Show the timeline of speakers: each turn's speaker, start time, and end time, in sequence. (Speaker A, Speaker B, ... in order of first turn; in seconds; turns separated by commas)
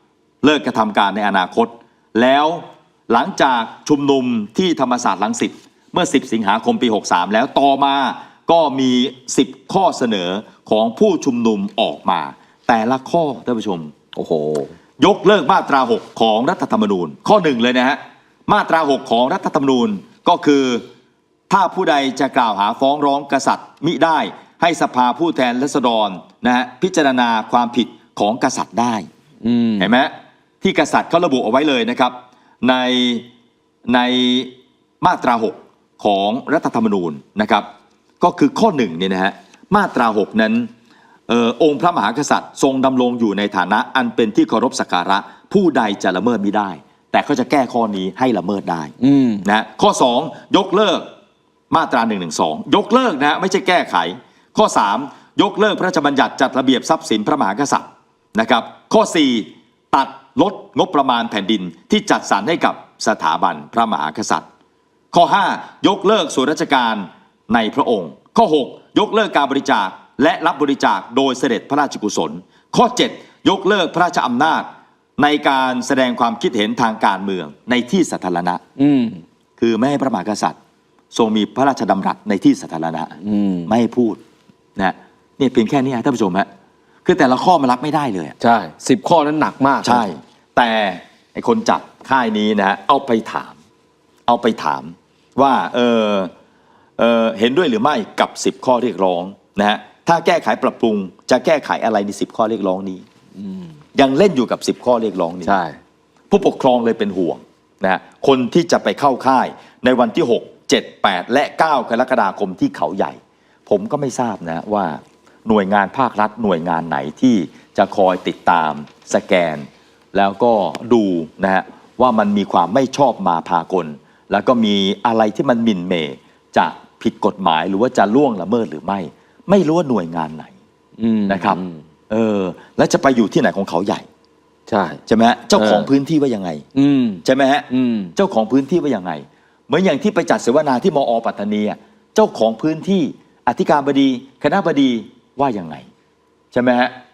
Speaker A: 0.4-13.9, Speaker B: 14.1-14.7, Speaker A: 15.0-20.8, Speaker A: 21.5-29.1, Speaker B: 29.4-29.9, Speaker A: 29.8-33.2, Speaker A: 33.9-37.7, Speaker A: 38.2-40.7, Speaker A: 41.3-48.9, Speaker B: 49.0-49.4, Speaker A: 49.4-51.1, Speaker A: 51.7-64.4, Speaker A: 65.1-78.6, Speaker B: 78.8-79.2, Speaker A: 79.6-80.6, Speaker A: 81.1-84.2, Speaker B: 83.2-83.7, Speaker A: 84.8-86.5, Speaker A: 87.0-88.4, Speaker B: 88.4-90.0, Speaker A: 89.8-93.5, Speaker A: 94.3-96.3, Speaker A: 97.0-103.0, Speaker B: 103.4-103.7, Speaker A: 103.9-105.6, Speaker B: 105.4-105.8, Speaker A: 106.3-130.5, Speaker B: 131.0-131.8, Speaker A: 131.3-131.6, Speaker A: 132.1-134.1, Speaker B: 134.7-135.0, Speaker A: 135.1-136.6, Speaker B: 135.6-135.9, Speaker B: 136.7-138.1, Speaker A: 137.2-145.9, Speaker A: 146.5-146.9